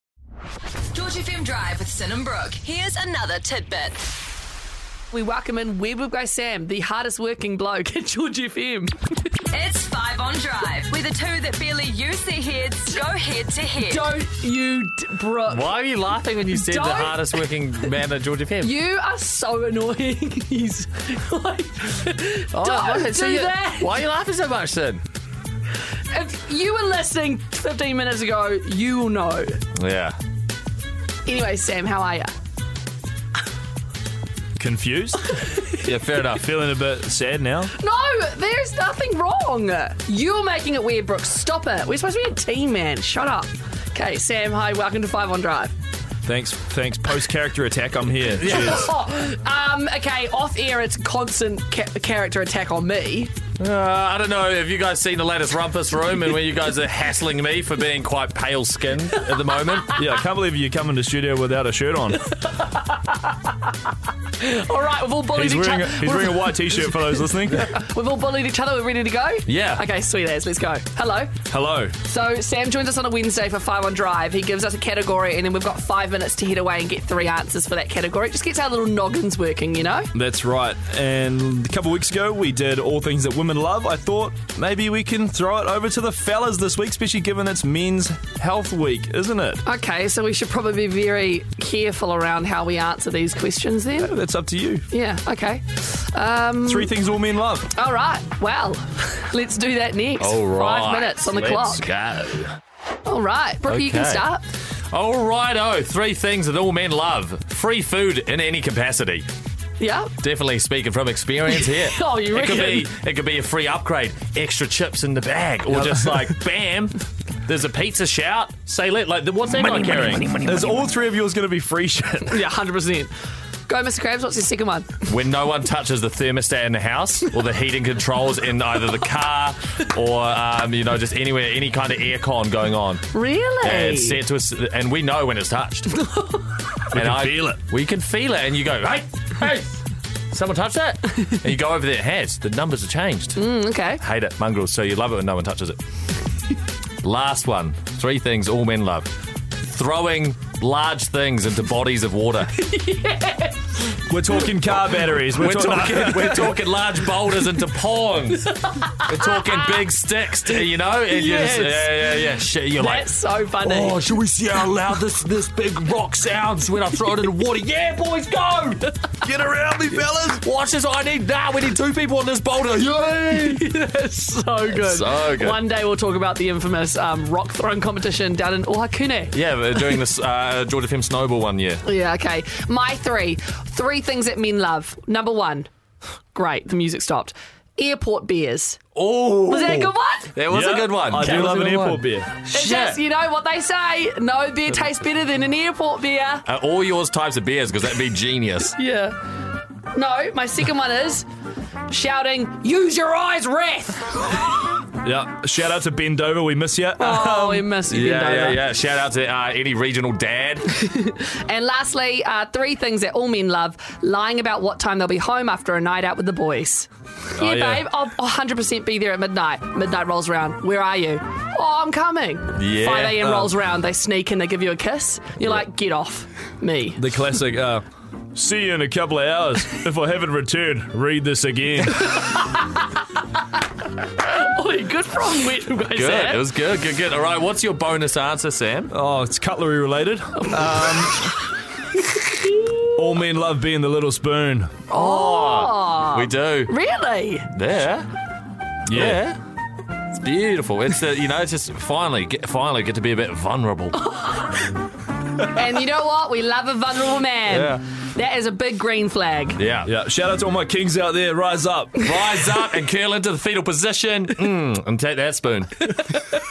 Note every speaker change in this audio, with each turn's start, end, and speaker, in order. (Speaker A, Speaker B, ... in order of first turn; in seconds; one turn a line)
Speaker A: 0.9-4.0
Speaker B: 5.1-9.0
Speaker A: 9.5-14.1
Speaker B: 13.8-15.7
Speaker C: 15.5-18.7
Speaker B: 16.5-17.4
Speaker B: 18.6-23.9
Speaker C: 22.5-25.0
Speaker B: 26.1-29.6
Speaker C: 29.8-30.2
Speaker B: 31.2-32.3
Speaker D: 34.6-35.2
Speaker C: 35.7-36.5
Speaker D: 36.3-37.7
Speaker B: 37.8-45.7
Speaker D: 46.2-48.8
Speaker C: 48.4-48.9
Speaker B: 48.5-53.3
Speaker C: 53.6-60.0
Speaker D: 60.0-62.3
Speaker B: 62.6-63.1
Speaker B: 64.4-71.3
Speaker D: 65.3-67.7
Speaker C: 69.5-69.8
Speaker D: 71.5-71.9
Speaker B: 72.0-80.1
Speaker D: 80.1-89.6
Speaker B: 89.6-94.1
Speaker D: 94.0-94.9
Speaker B: 94.9-96.9
Speaker D: 96.7-97.7
Speaker B: 97.7-101.9
Speaker C: 100.2-102.5
Speaker B: 103.0-104.4
Speaker C: 103.7-104.2
Speaker C: 104.9-109.2
Speaker B: 109.8-110.1
Speaker C: 110.2-120.4
Speaker B: 111.5-112.9
Speaker D: 120.4-122.4
Speaker B: 122.3-123.1
Speaker B: 123.7-125.0
Speaker C: 125.1-133.0
Speaker B: 133.1-134.2
Speaker C: 133.6-136.0
Speaker B: 136.0-136.3
Speaker D: 136.9-137.6
Speaker C: 136.9-143.4
Speaker B: 143.3-144.0
Speaker C: 144.0-145.8
Speaker C: 147.0-149.1
Speaker C: 149.6-152.5
Speaker B: 152.5-153.8
Speaker D: 154.1-156.5
Speaker C: 154.9-163.1
Speaker B: 158.5-159.8
Speaker B: 161.1-161.9
Speaker B: 162.8-164.0
Speaker C: 163.6-168.9
Speaker D: 169.2-170.4
Speaker C: 170.2-173.7
Speaker B: 173.4-179.3
Speaker C: 174.7-175.6
Speaker C: 179.3-181.8
Speaker B: 181.8-185.7
Speaker B: 186.3-188.8
Speaker C: 188.9-193.0
Speaker B: 189.5-190.3
Speaker D: 190.5-192.3
Speaker B: 191.2-191.5
Speaker B: 192.5-196.4
Speaker C: 196.5-198.7
Speaker B: 198.8-199.2
Speaker B: 199.9-201.3
Speaker B: 201.9-204.6
Speaker D: 205.0-207.1
Speaker B: 207.0-208.6
Speaker C: 207.2-210.7
Speaker B: 210.7-227.0
Speaker D: 217.4-217.8
Speaker C: 222.5-223.5
Speaker D: 227.0-232.1
Speaker B: 234.2-236.4
Speaker C: 235.9-238.9
Speaker D: 238.9-241.3
Speaker B: 240.6-241.3
Speaker D: 242.9-244.7
Speaker B: 244.9-247.5
Speaker C: 244.9-246.7
Speaker C: 247.5-248.1
Speaker D: 248.9-249.2
Speaker C: 248.9-249.4
Speaker C: 250.1-254.0
Speaker B: 254.0-254.7
Speaker B: 255.4-259.6
Speaker C: 257.5-257.8
Speaker C: 259.6-259.9
Speaker D: 259.8-261.9
Speaker C: 261.9-265.9